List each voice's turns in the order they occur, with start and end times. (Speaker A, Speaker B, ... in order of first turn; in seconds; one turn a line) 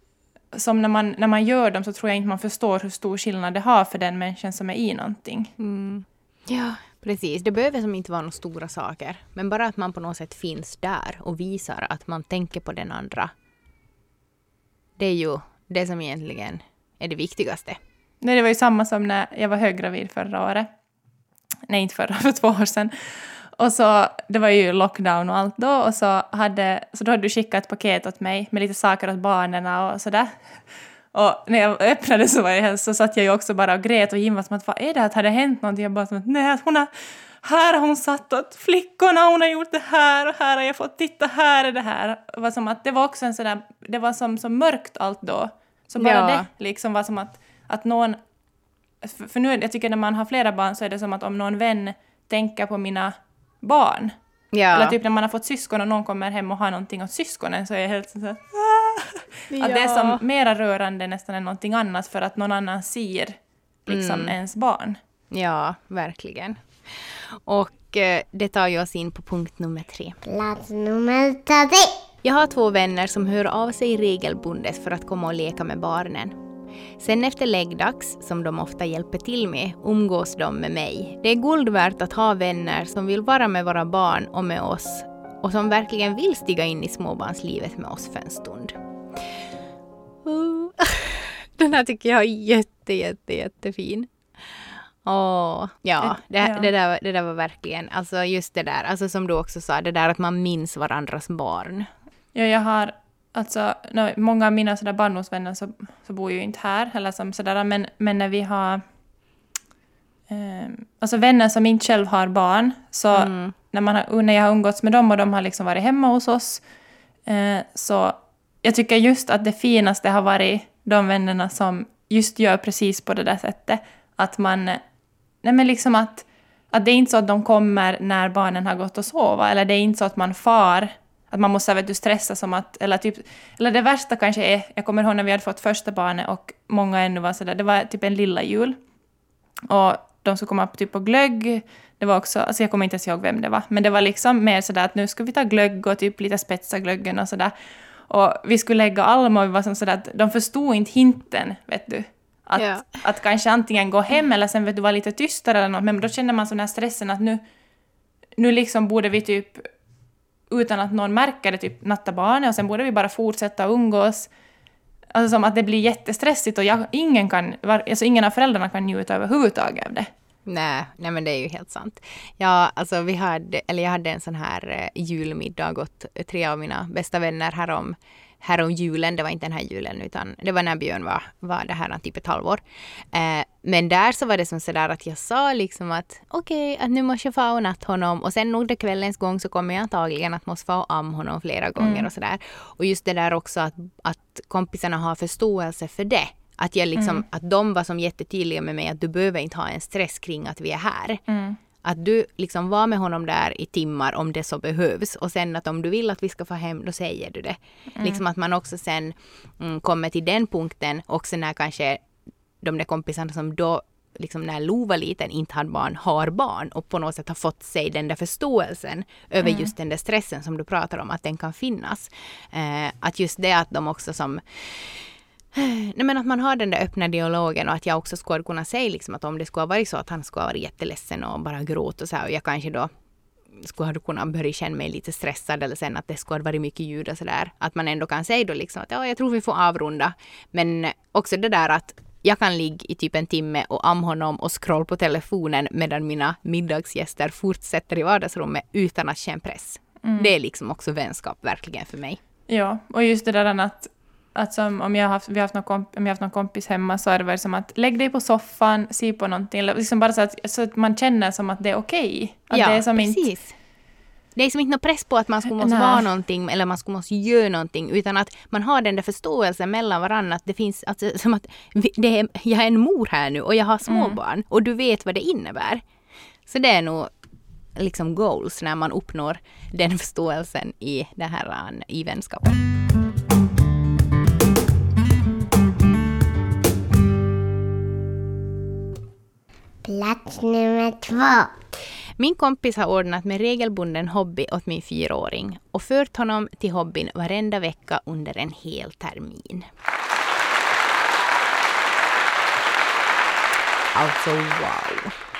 Speaker A: 0.5-5.5
Speaker B: 5.6-13.3
Speaker B: 15.0-17.8
Speaker A: 18.2-20.7
Speaker A: 21.7-30.6
Speaker A: 31.1-48.2
Speaker B: 46.0-46.5
Speaker A: 49.0-54.1
Speaker B: 54.5-55.0
Speaker A: 54.7-65.0
Speaker B: 59.5-60.2
Speaker B: 63.9-64.3
Speaker B: 65.3-70.2
Speaker C: 70.2-71.9
Speaker B: 72.2-76.4
Speaker B: 77.0-89.2
Speaker B: 90.2-94.1
Speaker B: 95.0-101.9
Speaker A: 96.0-96.7
Speaker A: 102.3-108.8
Speaker A: 110.3-116.6
Speaker B: 113.1-113.5
Speaker A: 117.3-124.8
Speaker A: 125.4-138.8
Speaker A: 139.7-147.5
Speaker A: 148.1-157.4
Speaker B: 152.6-153.0
Speaker A: 158.4-159.7
Speaker A: 160.5-164.3
Speaker A: 165.1-170.1
Speaker B: 170.5-201.2
Speaker A: 191.8-192.1
Speaker A: 197.0-197.2
Speaker A: 201.3-201.6
Speaker B: 201.8-212.0
Speaker A: 207.9-208.2
Speaker B: 212.6-232.9
Speaker A: 219.4-219.7
Speaker B: 233.5-252.2
Speaker A: 250.0-250.3
Speaker A: 252.5-263.2
Speaker B: 262.5-263.6
Speaker B: 264.4-275.8
Speaker A: 265.6-266.1
Speaker A: 273.9-274.2
Speaker B: 276.5-277.1
Speaker B: 277.8-282.6
Speaker C: 289.8-291.5
Speaker B: 292.2-299.7
Speaker B: 303.9-305.1